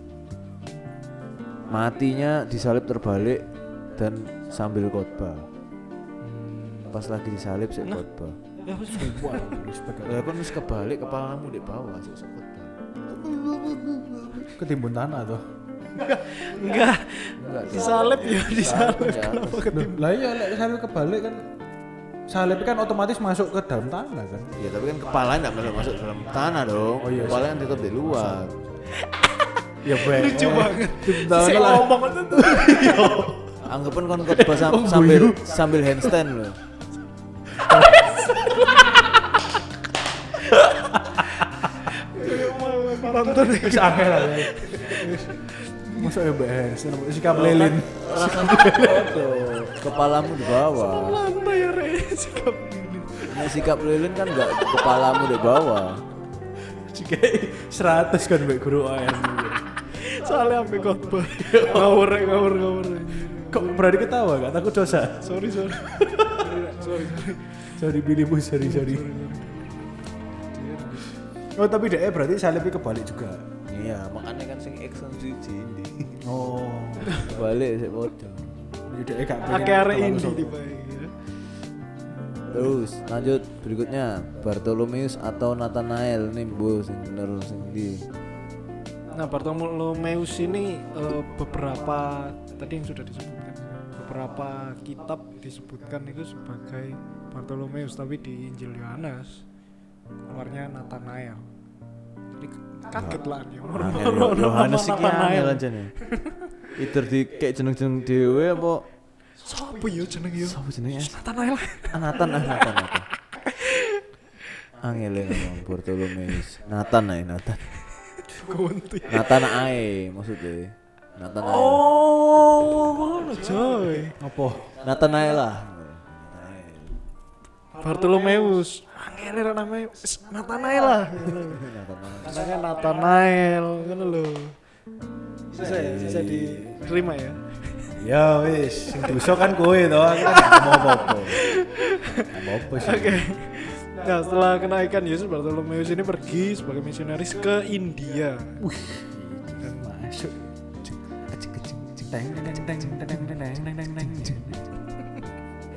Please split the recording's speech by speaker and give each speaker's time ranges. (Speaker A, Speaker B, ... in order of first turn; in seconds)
Speaker A: 1.7-5.5, 6.9-8.4, 10.1-14.5, 17.4-19.7, 24.6-28.6, 33.6-36.6, 47.3-51.2, 53.2-56.0, 73.7-76.2, 77.1-78.6, 82.5-88.1, 102.9-105.9, 106.7-108.9, 110.4-111.2, 111.9-113.1, 114.8-117.6, 119.1-122.0, 122.6-123.2, 124.8-127.0, 131.4-132.4, 135.6-136.8
Speaker B: 6.2-7.0, 8.9-10.4, 14.5-15.4, 19.7-21.4, 22.3-24.5, 27.0-28.8, 29.8-33.5, 34.3-36.1, 37.6-37.9, 40.5-41.8, 43.1-45.4, 45.9-49.2, 56.7-59.6, 61.4-62.3, 63.3-66.5, 67.7-69.1, 71.6-73.5, 76.2-77.2, 78.9-80.5, 124.2-124.7, 138.0-141.4, 142.3-143.3, 148.6-151.0, 151.6-154.7
Speaker C: 8.6-9.6, 15.9-20.1, 28.9-33.4, 37.5-39.1, 41.9-46.1, 50.8-53.6, 59.9-63.9, 65.2-67.8, 68.6-71.1, 79.5-81.2, 89.1-99.5, 100.3-101.5, 102.4-106.4, 109.4-112.7, 113.3-114.1, 118.2-119.5, 123.1-124.2, 127.8-131.7, 132.2-134.6, 135.5-137.9, 139.0-139.5, 140.2-148.6, 149.6-149.9